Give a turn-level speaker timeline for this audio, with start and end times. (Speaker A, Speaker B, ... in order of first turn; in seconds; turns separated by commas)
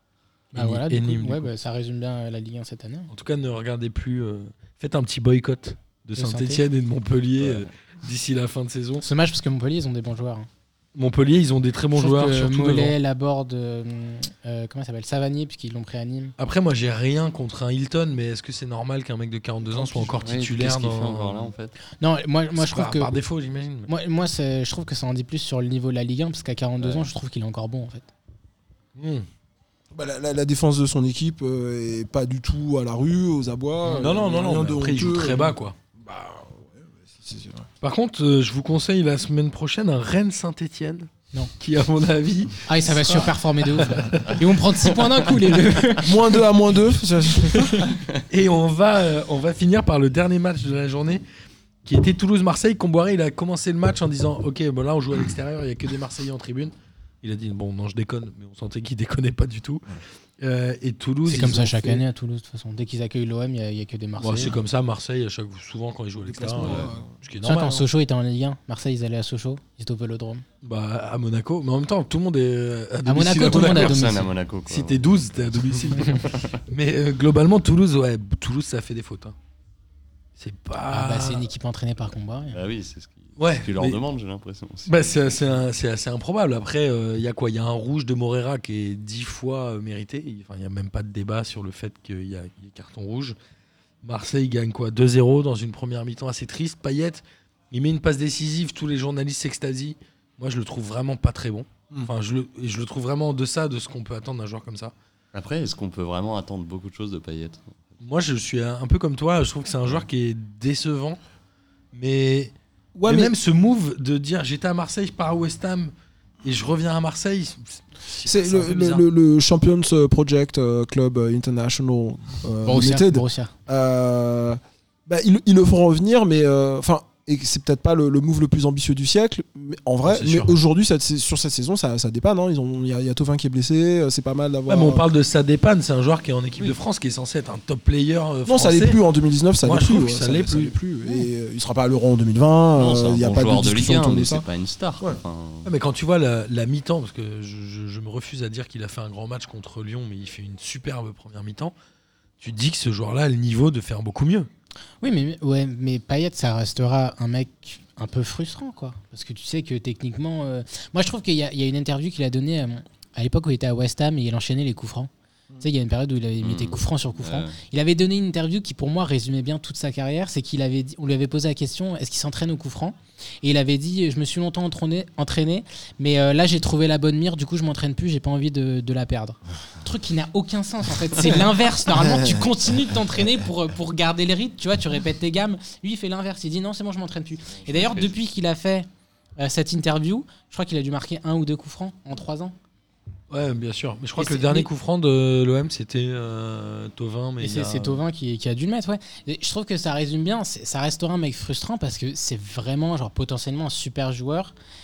Speaker A: 0.5-3.1, Speaker B: 0.5-1.5, Speaker B: 3.1-9.0, Speaker A: 6.2-6.6, Speaker C: 7.4-7.7, Speaker A: 9.0-10.5, Speaker B: 10.9-12.9, Speaker A: 11.9-16.3, Speaker B: 16.4-21.5, Speaker D: 19.8-20.1, Speaker C: 20.2-21.7, Speaker A: 22.0-23.1, Speaker B: 22.6-23.9, Speaker A: 23.9-28.1, Speaker B: 28.9-29.2, Speaker D: 29.9-37.7, Speaker A: 33.8-34.1, Speaker B: 34.0-35.7, Speaker B: 37.8-44.6, Speaker A: 42.7-46.4, Speaker D: 46.0-47.9, Speaker A: 47.6-47.9, Speaker B: 48.3-51.2, Speaker B: 51.8-62.0, Speaker A: 61.2-64.5, Speaker B: 64.2-67.8, Speaker D: 66.2-67.1, Speaker C: 66.6-66.9, Speaker A: 67.4-70.4, Speaker B: 70.6-79.3, Speaker A: 73.0-74.3, Speaker C: 73.5-76.5, Speaker B: 80.4-81.5, Speaker A: 80.9-82.6, Speaker C: 82.5-85.1, Speaker B: 83.4-84.0, Speaker B: 84.8-93.3, Speaker B: 94.0-104.9, Speaker C: 105.3-107.7, Speaker B: 108.0-111.2, Speaker B: 111.9-112.5, Speaker D: 112.9-113.3, Speaker B: 113.0-115.9, Speaker B: 116.4-119.0, Speaker D: 118.2-135.1, Speaker A: 122.7-123.5, Speaker B: 130.0-130.6, Speaker B: 134.7-139.0, Speaker D: 138.4-144.4, Speaker B: 139.6-140.8, Speaker C: 142.8-145.7, Speaker B: 145.6-151.7, Speaker B: 152.4-154.5, Speaker A: 155.0-165.1, Speaker A: 165.6-188.9, Speaker C: 166.4-167.5, Speaker D: 181.9-182.6, Speaker C: 187.6-188.2, Speaker A: 189.4-192.5, Speaker B: 193.3-198.0, Speaker A: 194.2-194.7, Speaker A: 197.4-204.5